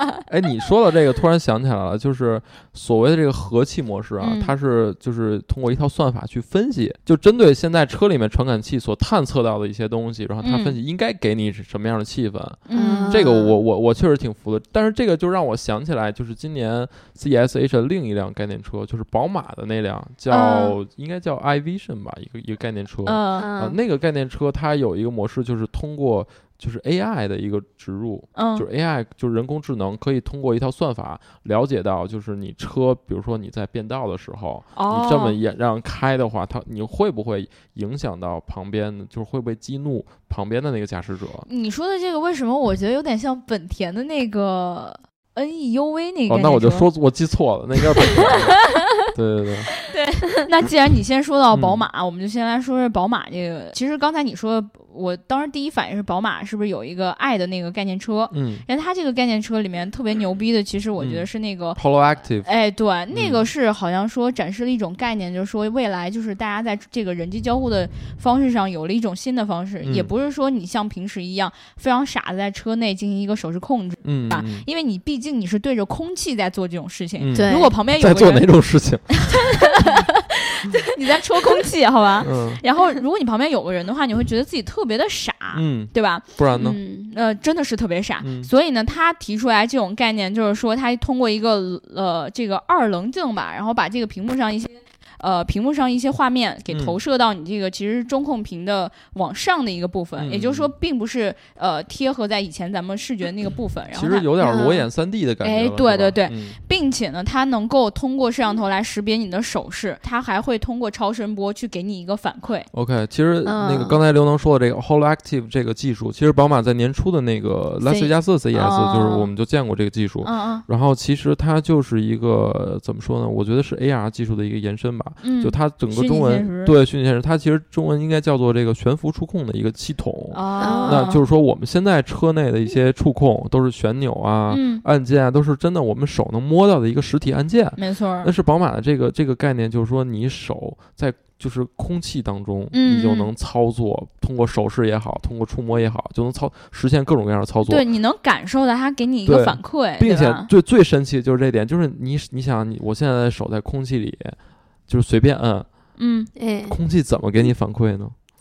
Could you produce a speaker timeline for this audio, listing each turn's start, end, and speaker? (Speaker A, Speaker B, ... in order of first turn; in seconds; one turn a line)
Speaker A: 0.3-41.5
Speaker B: 4.2-4.5
Speaker B: 10.4-10.8
Speaker B: 12.7-13.2
Speaker C: 12.7-13.6
Speaker B: 20.3-20.8
Speaker B: 23.0-23.5
Speaker C: 23.4-23.8
Speaker B: 28.3-28.6
Speaker B: 34.7-35.4
Speaker B: 41.5-46.9
Speaker A: 46.3-49.7
Speaker B: 49.9-61.8
Speaker A: 51.5-51.9
Speaker A: 58.3-58.6
Speaker A: 61.0-62.5
Speaker B: 62.4-78.5
Speaker A: 63.1-63.5
Speaker A: 69.8-70.1
Speaker A: 74.0-74.6
Speaker A: 77.2-79.2
Speaker C: 77.3-77.7
Speaker B: 79.1-86.2
Speaker A: 82.2-82.6
Speaker A: 85.5-86.8
Speaker C: 86.5-87.1
Speaker B: 87.0-104.3
Speaker A: 88.2-88.5
Speaker A: 96.7-97.0
Speaker A: 100.2-100.7
Speaker A: 103.9-106.6
Speaker C: 104.4-104.9
Speaker B: 105.4-112.7
Speaker A: 112.7-147.8
Speaker C: 113.4-114.0
Speaker B: 117.8-119.3
Speaker B: 120.2-120.6
Speaker B: 125.2-126.7
Speaker B: 130.3-131.2
Speaker C: 130.6-131.1
Speaker B: 134.5-134.8
Speaker B: 137.8-138.3
Speaker B: 142.7-143.3
Speaker B: 147.7-150.5
Speaker A: 149.2-155.7
Speaker B: 156.0-156.3
Speaker C: 156.3-156.8
Speaker A: 156.7-158.1